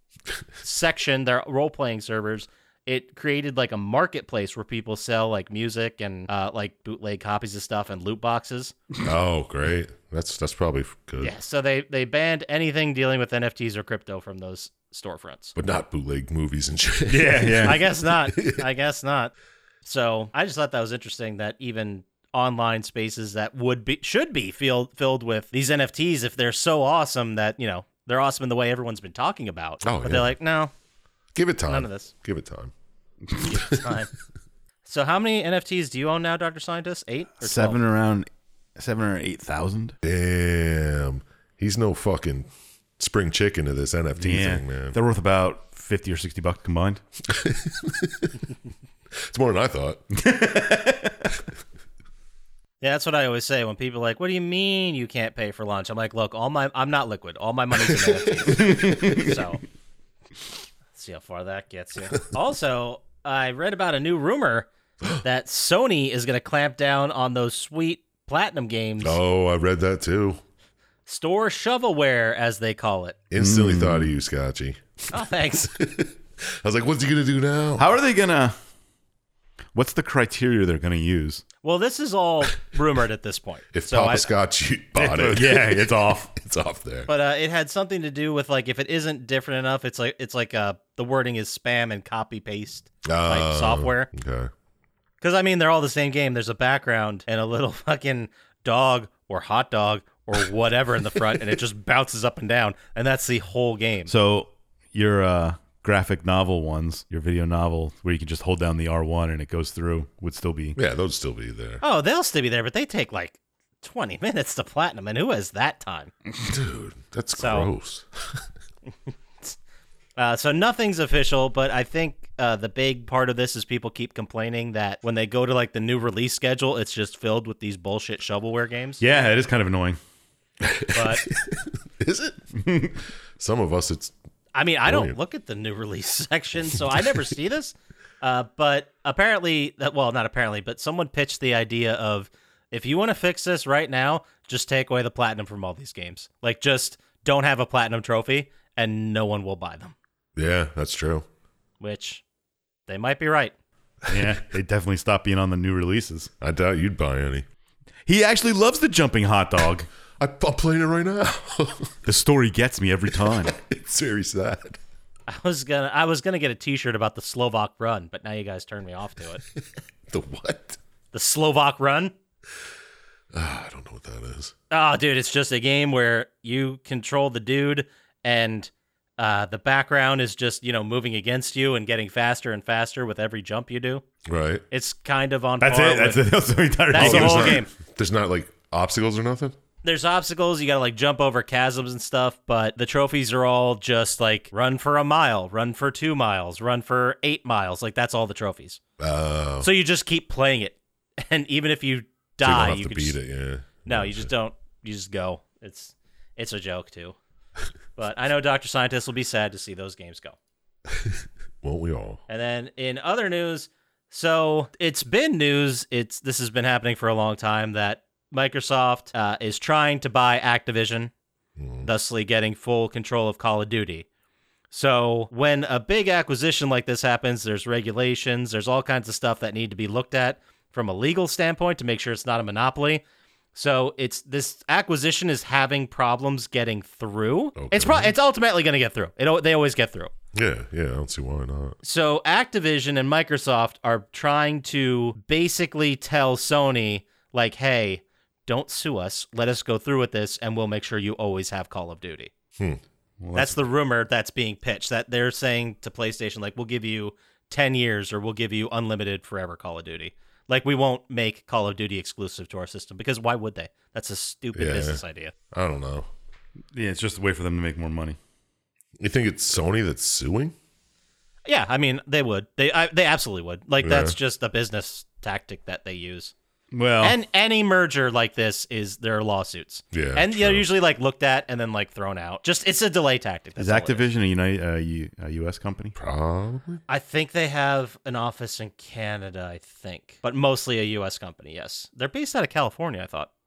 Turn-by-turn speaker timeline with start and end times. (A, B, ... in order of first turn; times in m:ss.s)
0:00.6-0:08.8 A
0:09.0-0:11.3 B
0:11.2-0:15.5 A
0:15.6-0:18.6 B
0:17.1-0:17.8 C
0:17.6-0:19.3 A
0:19.8-0:30.7 A
0:29.8-0:30.3 B
0:31.3-0:32.7 B
0:31.7-0:32.1 A
0:33.4-0:33.9 B
0:33.4-0:34.1 A
0:34.8-0:37.8 A
0:37.4-0:39.9 C
0:40.0-0:45.0 B
0:44.2-0:47.0 C
0:47.3-0:48.3 B
0:49.1-0:50.0 B
0:50.1-0:51.3 C
0:52.8-0:59.6 A
0:58.4-0:58.7 B
0:58.5-0:59.4 C
1:00.9-1:04.7 A
1:05.2-1:09.2 A
1:09.0-1:10.4 B
1:11.1-1:13.2 A
1:13.3-1:17.9 B
1:13.4-1:14.1 C
1:15.1-1:15.7 A
1:17.8-1:18.6 C
1:19.7-1:21.4 C
1:21.6-1:24.3 A
1:23.7-1:27.1 B
1:25.0-1:26.3 C
1:27.1-1:34.1 A
1:33.0-1:34.5 B
1:35.2-1:44.1 A
1:44.1-1:50.8 C
1:50.8-1:51.8 B
1:51.8-1:56.1 A
1:56.4-1:58.4 B
1:57.4-1:57.7 A
2:00.2-2:09.0 A
2:09.0-2:10.0 C
2:10.6-2:12.4 B
2:10.9-2:11.2 A
2:12.6-2:12.9 C
2:13.4-2:14.1 B
2:14.5-2:29.9 A
2:14.8-2:15.2 B
2:30.4-2:31.2 B
2:31.8-2:32.2 A
2:32.9-2:33.5 A
2:34.1-2:36.3 C
2:36.4-2:37.4 B
2:38.0-2:39.9 C
2:40.2-2:41.9 B
2:42.0-2:43.5 C
2:43.2-2:44.8 B
2:45.3-2:49.4 A
2:50.1-2:50.8 B
2:51.1-2:52.1 A
2:53.3-2:54.5 B
2:54.7-3:04.0 A
3:04.3-3:04.6 B
3:04.7-3:06.2 A
3:05.6-3:07.6 C
3:06.9-3:07.7 A
3:06.9-3:09.5 B
3:09.8-3:18.8 A
3:19.0-3:19.7 B
3:19.6-3:23.2 A
3:22.4-3:24.3 B
3:23.8-3:27.2 A
3:28.0-3:30.4 A
3:31.0-3:32.2 B
3:32.3-3:41.1 A
3:41.6-3:41.9 B
3:41.8-3:44.0 A
3:44.7-3:53.0 A
3:53.5-4:00.1 A
3:57.6-3:58.1 B
4:00.3-4:01.8 B
4:01.8-4:12.3 A
4:13.2-4:13.7 C
4:13.3-4:25.3 A
4:24.5-4:26.1 B
4:26.7-4:28.2 C
4:29.0-4:30.5 B
4:31.4-4:36.3 A
4:33.8-4:34.2 B
4:36.7-4:37.2 C
4:37.0-4:44.0 A
4:39.9-4:40.7 B
4:43.6-4:45.9 C
4:45.9-4:46.8 B
4:46.9-4:53.3 A